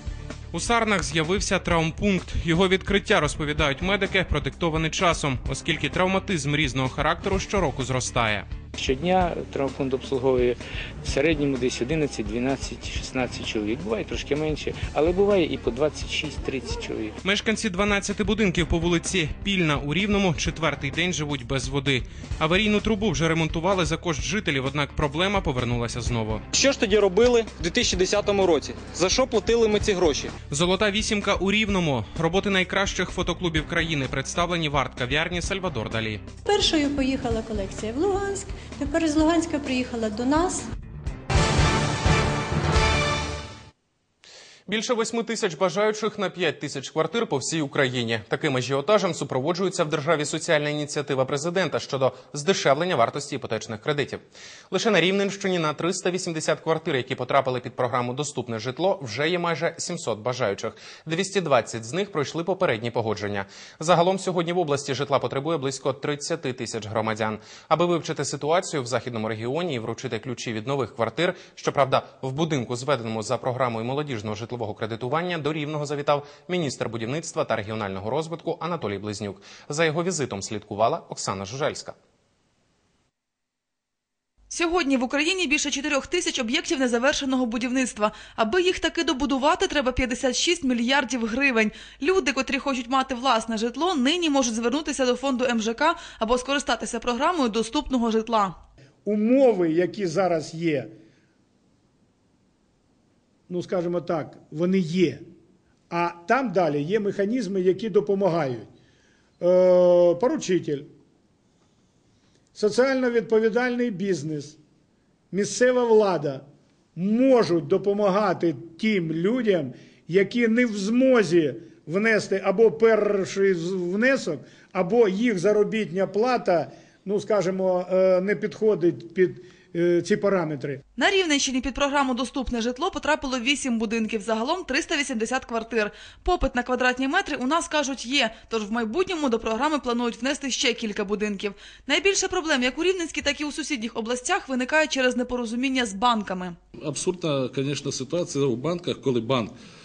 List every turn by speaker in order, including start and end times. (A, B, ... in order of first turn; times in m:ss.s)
0:00.5-0:08.5 A
0:08.8-0:17.1 B
0:17.2-0:26.4 A
0:26.5-0:30.3 C
0:30.5-0:36.2 A
0:36.4-0:40.7 D
0:44.7-1:22.0 A
1:24.5-1:38.6 E
1:39.0-1:40.9 F
1:43.5-1:45.2 F
1:45.9-1:48.7 F
1:49.4-1:50.8 F
1:52.6-1:54.6 F
1:55.3-1:56.4 F
1:57.0-2:10.8 F
2:11.0-2:26.6 E
2:26.8-2:29.5 G